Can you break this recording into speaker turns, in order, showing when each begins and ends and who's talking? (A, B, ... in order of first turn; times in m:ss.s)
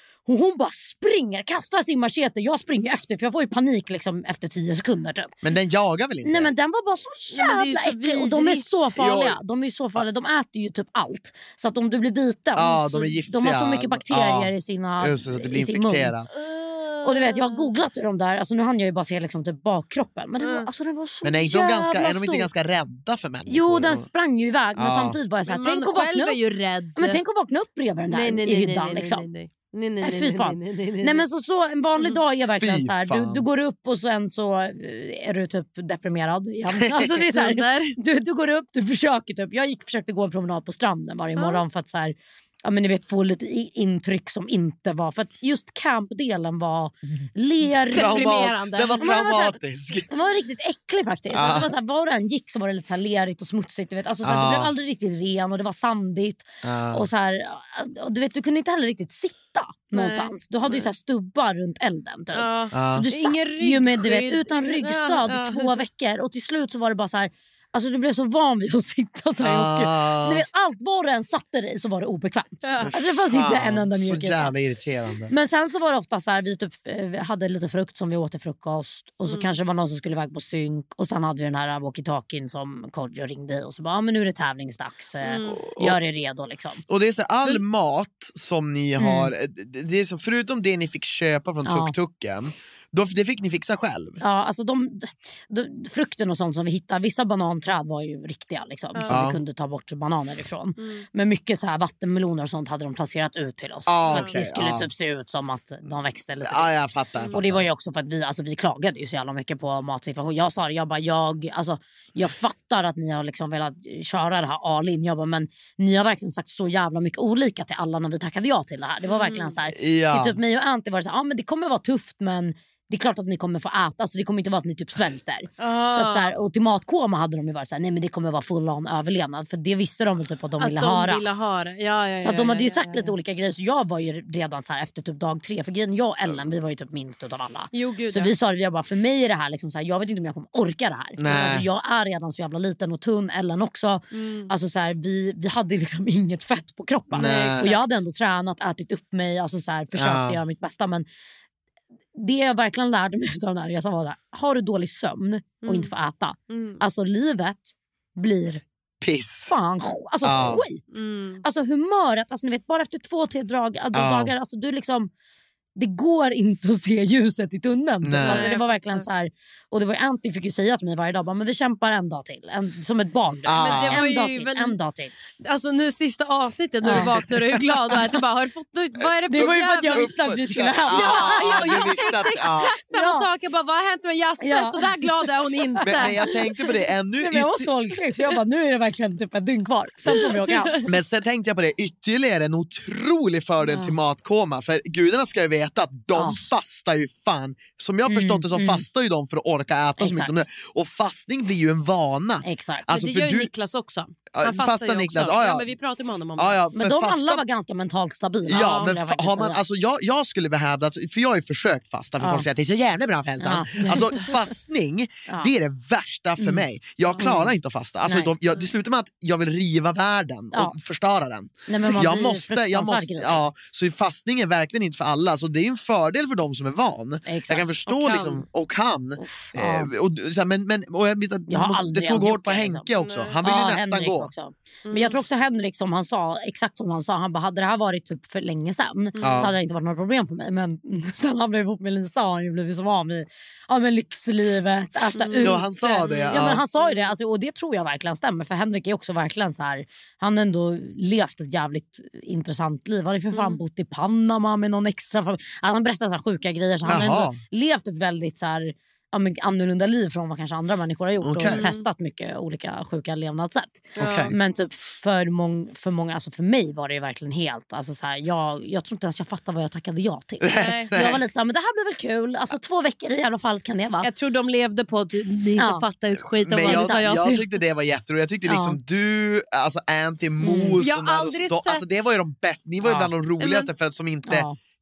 0:00.3-0:05.3 A
0:05.4-0:06.5 B
0:06.2-0:16.2 A
0:07.3-0:08.8 C
0:09.0-0:09.4 B
0:12.6-0:16.3 B
0:16.4-0:17.7 C
0:17.0-0:22.5 A
0:20.4-0:20.7 C
0:21.2-0:24.1 B
0:23.5-0:26.4 A
0:24.8-0:25.2 B
0:25.5-0:27.2 C
0:27.0-0:29.2 A
0:28.1-0:31.2 C
0:30.0-0:48.4 A
0:32.5-0:33.5 B
0:37.0-0:38.0 C
0:41.4-0:41.6 C
0:47.9-0:49.1 C
0:47.9-0:50.1 B
0:49.0-0:49.6 A
0:50.1-1:14.5 A
0:51.3-0:51.7 B
0:54.2-0:54.7 B
0:56.6-0:57.1 B
0:59.9-1:00.9 C
1:02.3-1:05.8 C
1:02.7-1:03.1 B
1:09.4-1:10.4 B
1:12.6-1:12.9 C
1:12.8-1:15.3 B
1:15.3-1:26.8 A
1:25.2-1:25.6 C
1:25.7-1:26.0 B
1:26.9-1:34.2 B
1:29.0-1:29.3 A
1:31.7-1:32.0 A
1:34.2-1:46.7 A
1:39.1-1:39.4 B
1:40.8-1:41.0 C
1:43.9-1:44.9 B
1:44.1-1:44.4 C
1:46.5-1:47.7 B
1:47.3-2:11.2 A
1:59.1-1:59.5 C
1:59.7-2:00.4 B
2:05.6-2:06.3 C
2:10.6-2:13.1 C
2:12.2-2:31.0 A
2:17.7-2:18.3 C
2:21.2-2:21.7 B
2:24.1-2:24.5 C
2:27.1-2:27.9 C
2:27.2-2:27.7 B
2:29.9-2:30.4 B
2:32.2-2:38.6 A
2:35.6-2:35.9 C
2:36.5-2:36.8 C
2:39.0-2:39.5 B
2:39.5-2:45.1 A
2:40.2-2:40.6 B
2:40.9-2:41.4 C
2:43.9-2:44.3 B
2:45.8-2:55.1 A
2:48.0-2:48.5 B
2:48.3-2:49.1 C
2:53.5-2:54.1 B
2:53.6-2:54.8 C
2:55.4-3:00.2 C
2:56.9-2:57.3 B
2:59.0-3:02.7 B
2:59.3-3:03.3 A
3:00.9-3:06.3 C
3:04.4-3:05.0 A
3:05.8-3:06.2 A
3:05.8-3:07.7 B
3:07.2-3:10.8 A
3:10.4-3:10.8 C
3:10.8-3:23.5 B
3:13.7-3:14.0 A
3:16.2-3:16.4 A
3:18.1-3:18.8 A
3:20.0-3:20.5 A
3:22.4-3:22.9 A
3:22.9-3:26.6 C
3:24.3-3:25.7 B
3:26.4-3:27.4 B
3:26.8-3:29.6 A
3:28.5-3:54.3 B
3:28.5-3:28.9 C
3:32.2-3:32.5 A
3:33.4-3:34.4 A
3:36.4-3:37.5 A
3:38.0-3:38.3 A
3:41.7-3:43.4 A
3:47.3-3:47.7 A
3:47.9-3:48.4 C
3:49.2-3:49.9 A
3:51.5-3:52.9 A
3:53.0-3:53.4 C
3:53.4-4:34.1 A
3:54.9-3:55.2 C
3:59.2-3:59.5 C
3:59.2-3:59.5 B
4:05.2-4:07.1 C
4:05.4-4:06.6 B
4:13.3-4:13.6 C
4:16.9-4:17.4 B
4:21.2-4:21.6 B
4:21.5-4:21.8 C
4:24.0-4:24.3 B
4:24.0-4:24.3 C
4:30.4-4:31.2 B
4:30.6-4:30.9 C
4:34.0-4:37.5 C
4:35.6-4:35.8 A
4:36.4-4:44.5 B
4:36.6-4:37.0 A
4:38.5-4:38.8 A
4:40.4-4:40.8 A
4:40.8-4:42.1 C
4:42.8-4:43.1 A
4:43.4-4:43.7 C
4:44.3-4:44.6 A